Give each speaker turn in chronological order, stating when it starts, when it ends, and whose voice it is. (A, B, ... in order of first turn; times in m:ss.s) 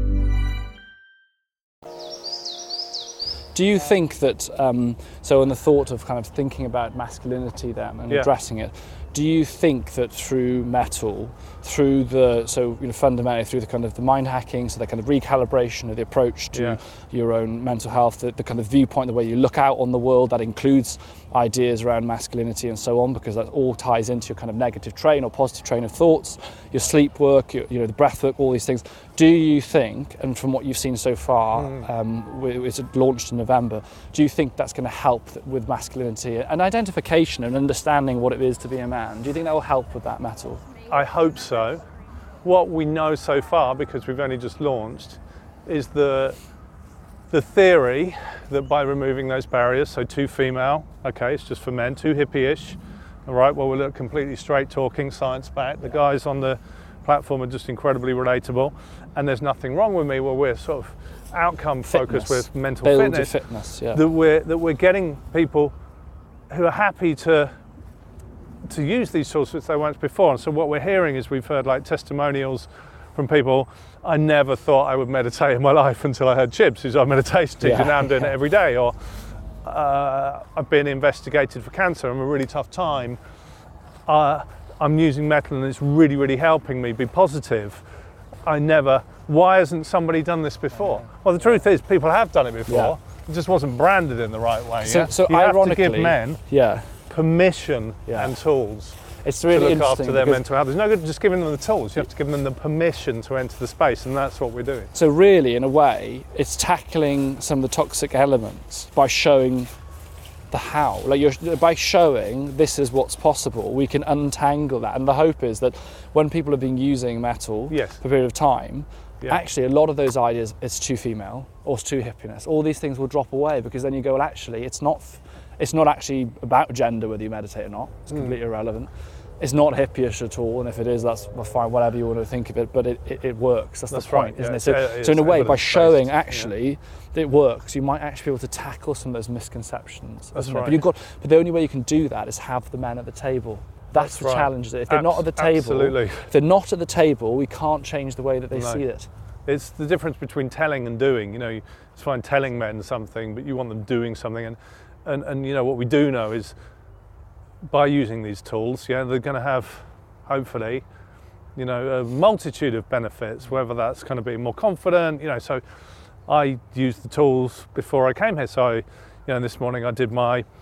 0:03.5-0:40.6 A
0:16.5-0:16.8 B
0:31.6-0:31.8 B
0:40.9-0:41.8 B
0:42.4-0:46.4 B
0:47.3-1:03.4 B
1:01.9-1:04.0 A
1:03.9-1:05.7 B
1:06.5-1:07.5 B
1:08.7-1:23.2 B
1:17.6-1:18.3 A
1:24.1-1:27.9 B
1:28.4-1:36.4 B
1:32.7-1:33.0 A
1:34.8-1:37.0 A
1:37.1-1:39.0 B
1:38.1-1:38.3 A
1:39.2-1:40.4 A
1:39.5-1:44.9 B
1:44.9-1:49.7 A
1:50.5-2:29.1 A
1:57.7-1:58.0 B
2:13.9-2:16.5 B
2:20.3-2:20.8 B
2:23.9-2:26.3 B
2:28.5-2:28.8 B
2:29.4-2:36.6 B
2:37.7-2:40.8 B
2:41.6-2:45.6 B
2:46.2-2:50.4 B